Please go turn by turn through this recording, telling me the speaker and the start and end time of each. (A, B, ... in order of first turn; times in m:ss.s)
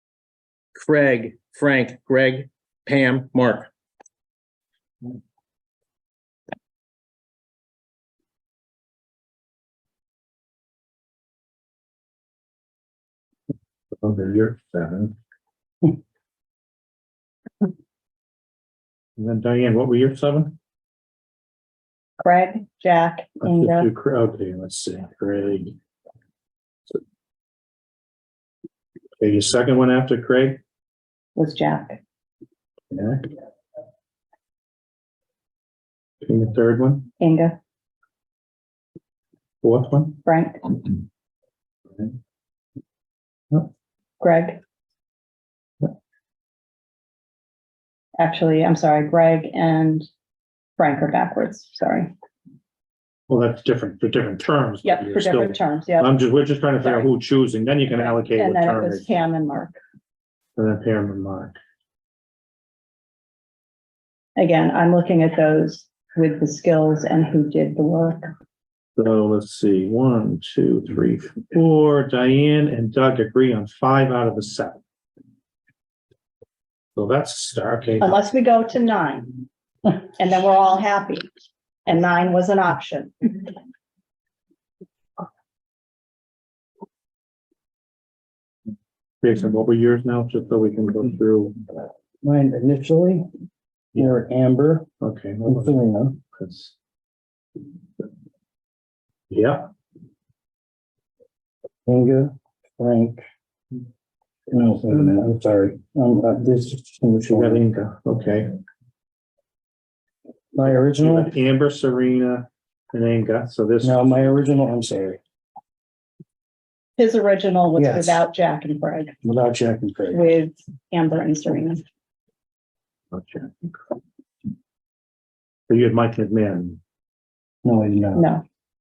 0:00.7-0:03.7 A
0:14.0-0:15.1 B
0:19.2-0:20.6 B
0:22.2-0:23.9 C
0:23.4-0:25.7 B
0:29.2-0:30.6 B
0:31.4-0:32.0 C
0:32.9-0:33.3 B
0:36.2-0:37.1 B
0:37.2-0:37.6 C
0:39.6-0:40.2 B
0:40.2-0:40.6 C
0:44.2-0:44.6 C
0:48.2-0:50.1 C
0:50.8-0:52.1 C
0:53.3-0:59.0 B
0:54.8-0:56.1 C
0:56.8-0:57.1 C
0:58.0-0:59.8 C
1:00.6-1:01.6 B
1:04.4-1:08.3 C
1:09.0-1:14.8 B
1:16.9-1:18.2 B
1:18.0-1:21.3 C
1:21.8-1:23.5 C
1:29.2-1:31.6 B
1:32.2-1:33.2 D
1:33.9-1:34.9 D
1:33.9-1:34.2 B
1:35.0-1:35.8 B
1:35.4-1:36.2 D
1:36.3-1:36.7 B
1:39.3-1:39.7 B
1:41.8-1:43.2 D
1:44.5-1:47.6 D
1:47.3-1:48.5 B
1:50.5-1:51.3 D
1:50.7-1:54.0 B
1:53.8-1:55.2 D
1:57.0-1:59.1 C
1:57.8-1:58.2 D
1:59.2-2:00.2 D
2:00.1-2:01.8 C
2:03.1-2:03.8 B
2:05.7-2:06.8 B
2:07.6-2:08.3 D
2:08.2-2:08.4 C